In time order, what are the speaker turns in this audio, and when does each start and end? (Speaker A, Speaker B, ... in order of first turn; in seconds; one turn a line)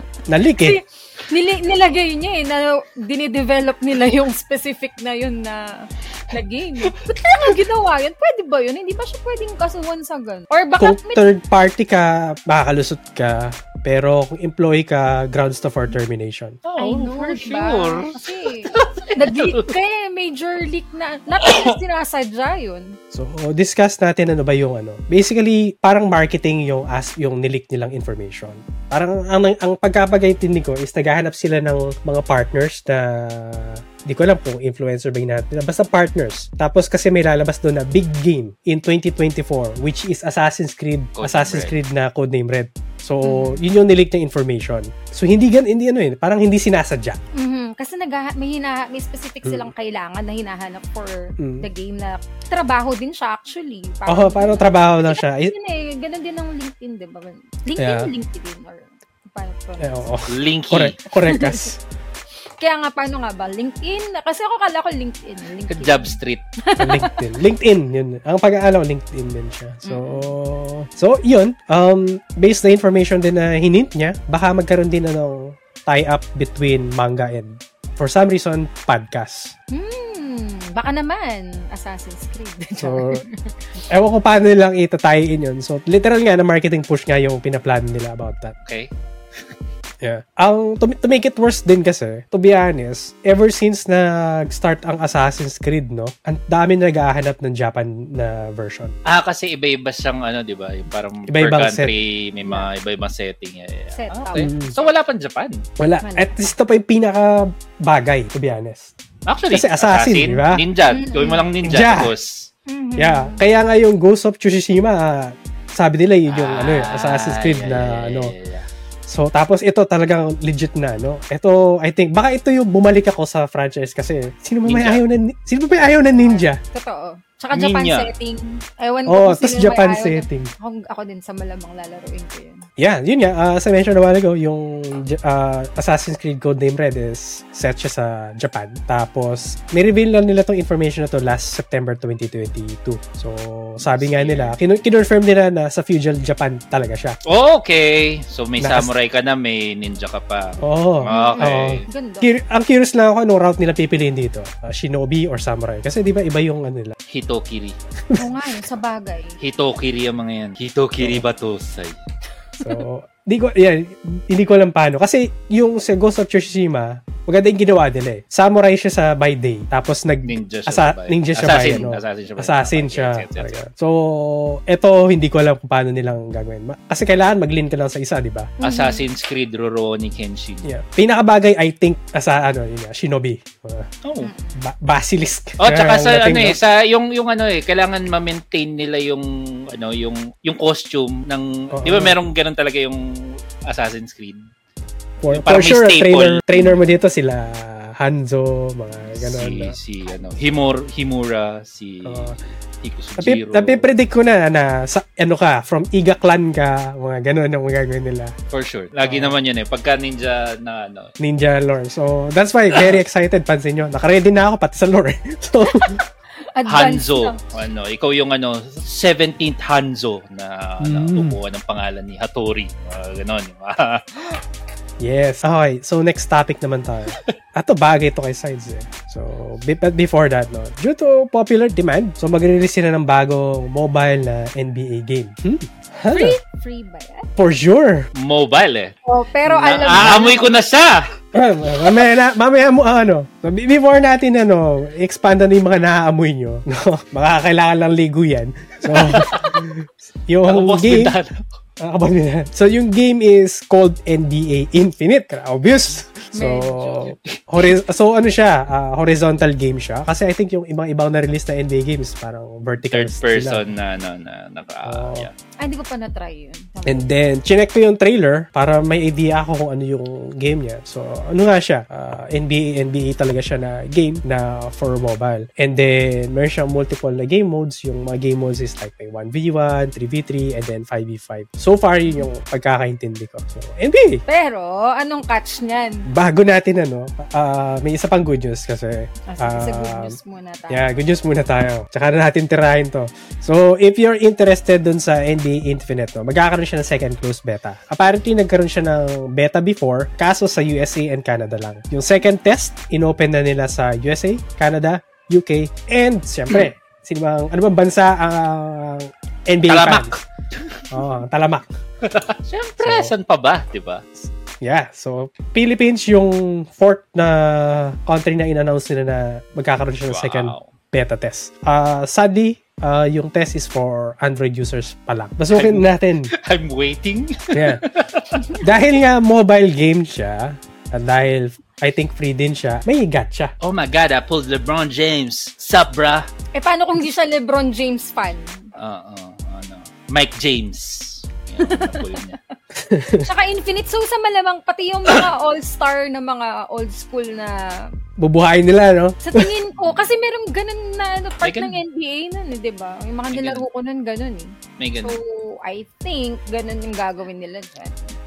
Speaker A: 0.3-0.8
Speaker B: 0.6-11.3
Speaker A: 10.8-16.6
Speaker C: 16.6-19.8
Speaker B: 16.8-22.9
Speaker C: 21.4-21.8
Speaker A: 23.1-47.2
Speaker C: 41.2-41.7
Speaker B: 43.2-43.6
Speaker B: 47.4-60.1
Speaker A: 49.4-49.7
Speaker A: 51.4-51.6
Speaker A: 54.1-55.5
Speaker A: 57.8-58.1
Speaker A: 59.8-61.8
Speaker C: 60.3-61.0
Speaker B: 61.3-61.7
Speaker B: 62.6-67.1
Speaker C: 65.7-66.4
Speaker A: 66.8-79.5
Speaker B: 69.8-70.3
Speaker B: 79.7-83.5
Speaker A: 82.8-83.2
Speaker A: 83.9-88.5
Speaker A: 90.0-98.9
Speaker C: 99.0-105.6
Speaker A: 101.3-101.9
Speaker B: 103.9-104.8
Speaker A: 104.3-104.7
Speaker A: 105.8-108.9
Speaker B: 106.0-106.5
Speaker C: 109.3-112.5
Speaker A: 109.5-110.6
Speaker B: 110.9-111.4
Speaker A: 111.6-112.1
Speaker B: 112.7-113.4
Speaker A: 113.0-118.3
Speaker C: 116.3-118.7
Speaker A: 119.1-126.6
Speaker C: 124.6-125.0
Speaker B: 126.1-132.7
Speaker C: 127.5-128.1
Speaker A: 129.1-130.5
Speaker A: 132.8-147.2
Speaker C: 143.8-144.6
Speaker C: 147.2-151.8
Speaker A: 148.6-148.9
Speaker A: 150.6-156.9
Speaker B: 151.1-152.3
Speaker C: 157.1-157.8
Speaker B: 158.1-159.4
Speaker C: 159.4-161.9
Speaker A: 161.0-161.2
Speaker A: 162.6-178.5
Speaker C: 170.2-173.6
Speaker B: 178.6-179.0
Speaker C: 178.6-180.7
Speaker A: 180.6-183.9
Speaker C: 184.0-184.3
Speaker B: 184.2-184.6
Speaker A: 184.6-186.6
Speaker C: 185.6-194.5
Speaker A: 191.7-192.2
Speaker A: 195.2-199.8
Speaker C: 195.3-196.6
Speaker C: 199.2-203.9
Speaker A: 202.0-202.4
Speaker A: 203.2-208.3
Speaker C: 208.5-211.1
Speaker A: 209.0-209.4
Speaker A: 211.2-216.0
Speaker B: 215.7-217.4
Speaker C: 216.7-224.4
Speaker A: 220.8-221.3
Speaker A: 225.0-236.4
Speaker B: 236.1-237.3
Speaker A: 237.4-238.1
Speaker C: 238.2-238.9
Speaker B: 239.1-240.5
Speaker C: 239.5-241.0
Speaker A: 239.6-240.3
Speaker A: 241.3-251.1
Speaker C: 248.8-249.6
Speaker C: 250.5-251.4
Speaker A: 251.8-263.7
Speaker B: 256.3-257.1
Speaker C: 262.9-265.3
Speaker A: 264.8-265.3
Speaker B: 265.6-267.1
Speaker A: 266.9-284.2
Speaker B: 284.3-286.1
Speaker A: 286.1-290.1
Speaker B: 289.3-290.9
Speaker A: 290.7-310.1
Speaker C: 309.7-310.9
Speaker A: 310.9-311.7
Speaker C: 312.0-314.0
Speaker A: 312.8-313.1
Speaker A: 314.6-326.3
Speaker C: 320.1-320.6
Speaker C: 325.5-328.6
Speaker A: 327.5-327.8
Speaker A: 328.6-333.5
Speaker C: 333.6-336.3
Speaker B: 336.5-338.7
Speaker C: 338.8-342.4
Speaker B: 341.6-342.2
Speaker A: 342.7-343.3
Speaker B: 343.2-347.8
Speaker A: 348.2-349.5
Speaker B: 349.2-358.1
Speaker C: 351.4-351.8
Speaker C: 353.3-353.6
Speaker C: 354.8-355.2